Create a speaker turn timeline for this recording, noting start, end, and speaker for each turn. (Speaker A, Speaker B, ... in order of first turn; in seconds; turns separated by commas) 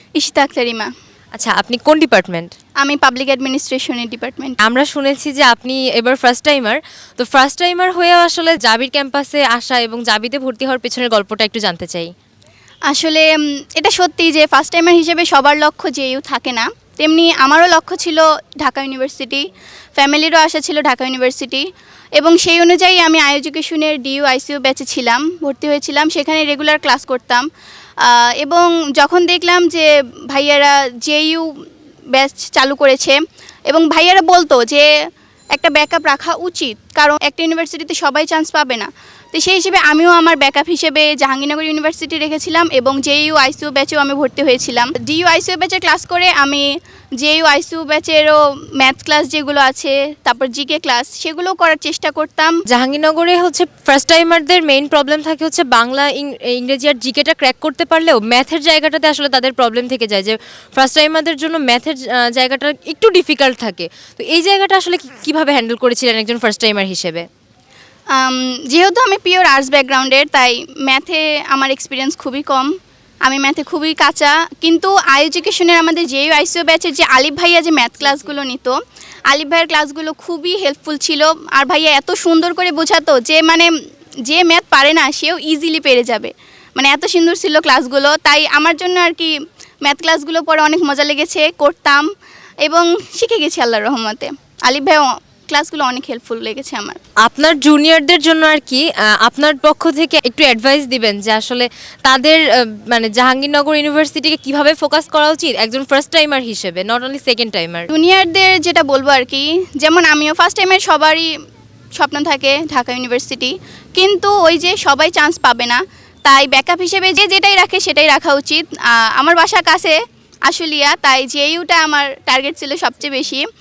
Speaker A: 0.1-0.9, Speaker B: 1.3-2.5, Speaker A: 2.8-4.6, Speaker B: 4.6-12.1, Speaker A: 12.9-19.4, Speaker A: 20.0-21.6, Speaker A: 22.2-27.4, Speaker A: 28.0-31.5, Speaker A: 32.1-34.9, Speaker A: 35.5-46.7, Speaker A: 47.2-52.6, Speaker B: 52.7-67.2, Speaker A: 68.1-72.7, Speaker A: 73.2-78.8, Speaker A: 79.3-83.7, Speaker A: 84.2-92.0, Speaker A: 92.6-97.0, Speaker B: 97.2-107.9, Speaker A: 107.9-111.3, Speaker A: 112.0-120.0, Speaker A: 120.5-123.5